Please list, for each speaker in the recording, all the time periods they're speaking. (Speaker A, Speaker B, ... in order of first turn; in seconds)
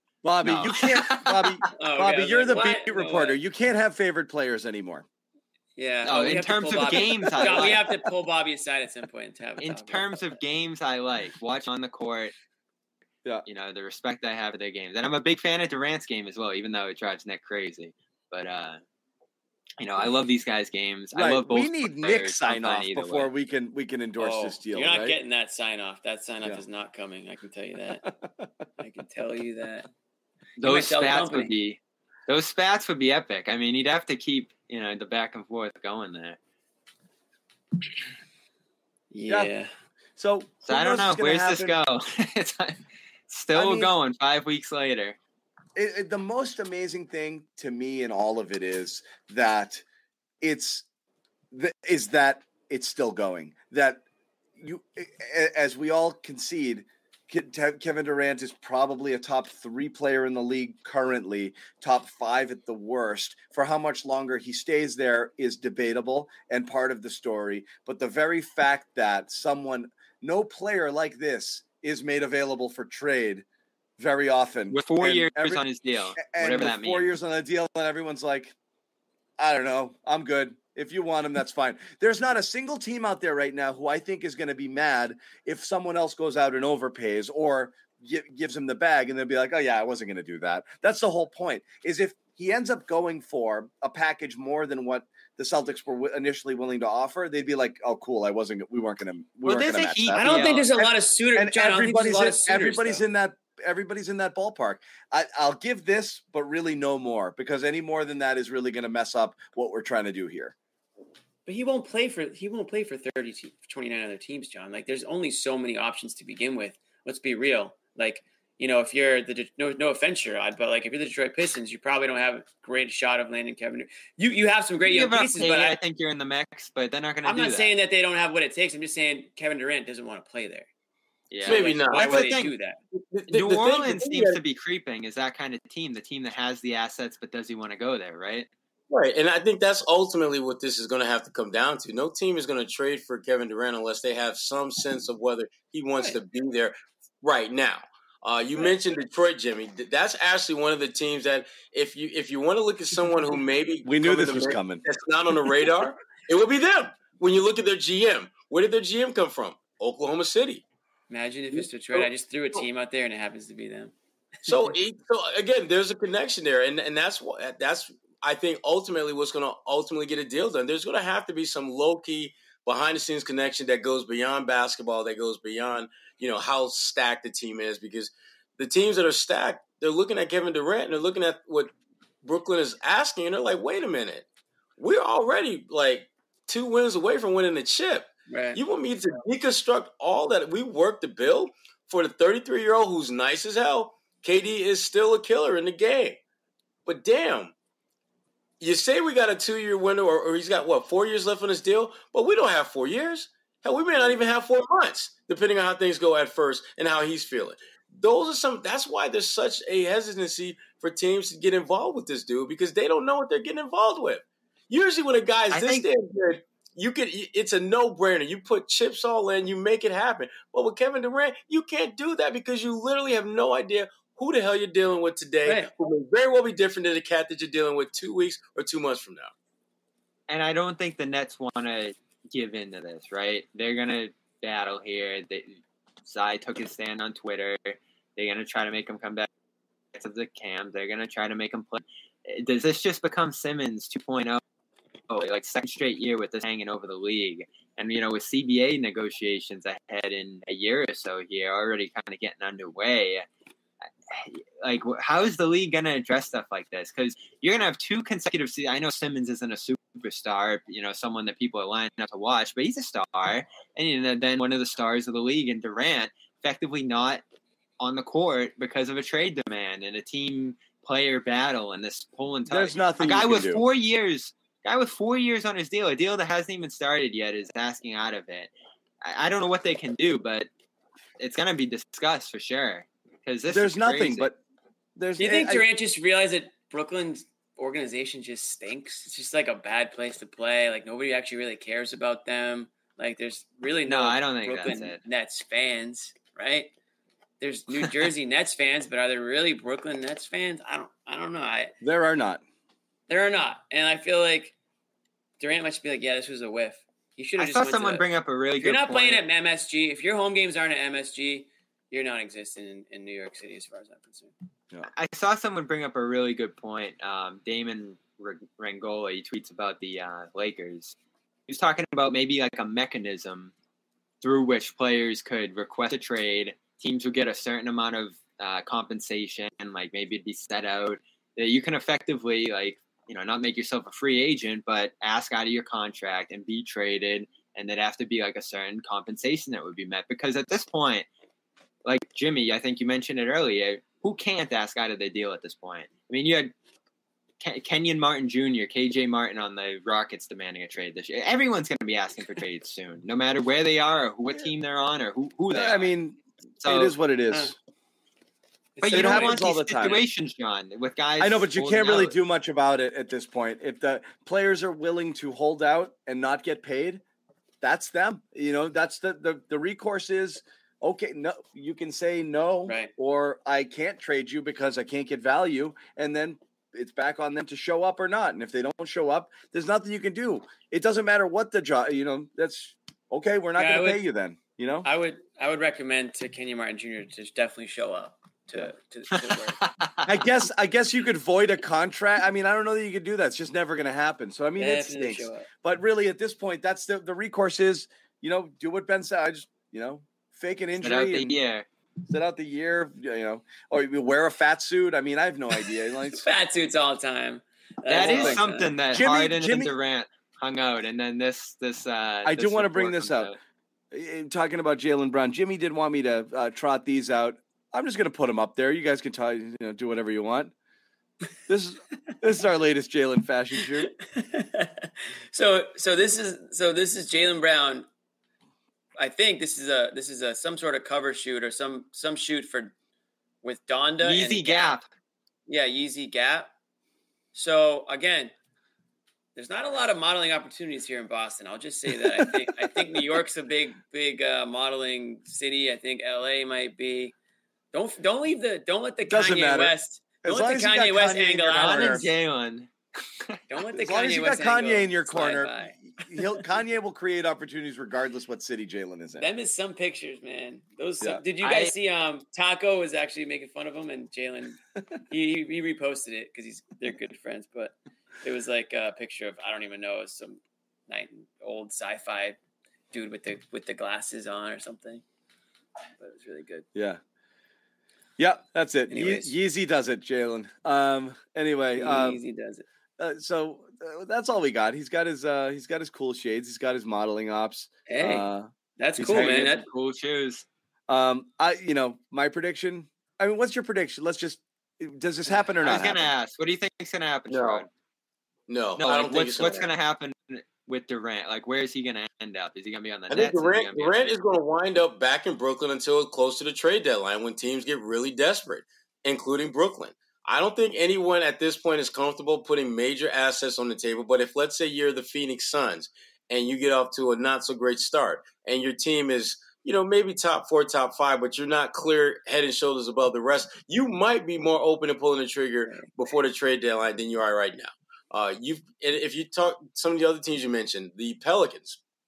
Speaker A: 0.2-5.1, 7.3-7.8, 21.1-25.2, 28.1-28.5, 40.2-41.8, 43.5-43.9, 45.8-49.8, 50.4-50.9, 51.5-54.0, 54.6-73.4, 74.0-75.7, 76.2-78.5, 79.4-100.8, 101.4-110.5, 153.8-154.8, 272.5-273.6, 283.5-284.4, 285.0-285.6, 301.8-302.4, 355.5-357.6, 358.9-360.0, 361.2-367.0, 367.6-384.9, 390.1-401.4, 402.1-406.2, 408.0-409.7, 412.2-413.3, 413.9-420.5, 421.5-423.9, 449.1-452.1, 453.7-459.3, 476.8-477.0, 478.2-482.2, 483.0-489.4, 490.9-496.1
Speaker B: 0.4-1.6, 6.0-7.9, 9.6-12.3, 13.5-18.8, 19.8-23.3, 30.6-36.4, 40.7-45.2, 74.7-77.1, 99.5-100.7, 124.8-127.7, 131.3-132.5, 133.3-138.5, 215.5-215.9, 230.3-239.3, 239.9-244.4, 245.1-253.3, 254.1-267.2, 267.8-278.5, 279.0-280.5, 281.2-284.3, 293.9-295.0, 307.4-309.2, 314.9-321.0, 321.5-323.5, 324.2-341.1, 341.9-346.5, 347.4-355.9, 356.6-356.9, 358.8-362.1, 389.2-390.2, 400.8-401.7, 407.9-413.4, 434.0-434.9, 451.5-453.4, 461.4-461.7, 489.0-490.5, 495.6-497.7, 498.8-504.1
Speaker C: 1.8-3.4, 5.8-10.2, 24.2-28.1, 28.8-29.9, 30.6-31.5, 39.1-39.7, 100.2-103.0, 111.5-125.8, 127.2-130.7, 131.4-132.8, 161.1-163.9, 188.3-188.6, 225.4-225.7, 285.2-296.7, 297.4-301.7, 303.1-304.6, 305.4-308.1, 308.6-314.3, 358.8-359.4, 372.6-372.9, 383.6-384.0, 384.8-389.6, 394.6-395.5, 406.1-408.7, 424.0-427.9, 429.0-432.7, 433.4-434.8, 435.5-436.5, 437.3-438.3, 439.4-447.1, 447.7-452.0, 453.5-456.2, 459.2-472.4, 472.9-475.0, 476.0-476.7, 478.9-479.3, 481.8-482.6, 487.9-489.7
Speaker D: 131.4-132.3, 132.9-134.4, 138.9-160.7, 161.5-162.6, 164.5-184.3, 184.8-196.2, 196.9-197.5, 198.6-229.3, 497.3-497.7, 498.5-499.7, 503.1-531.8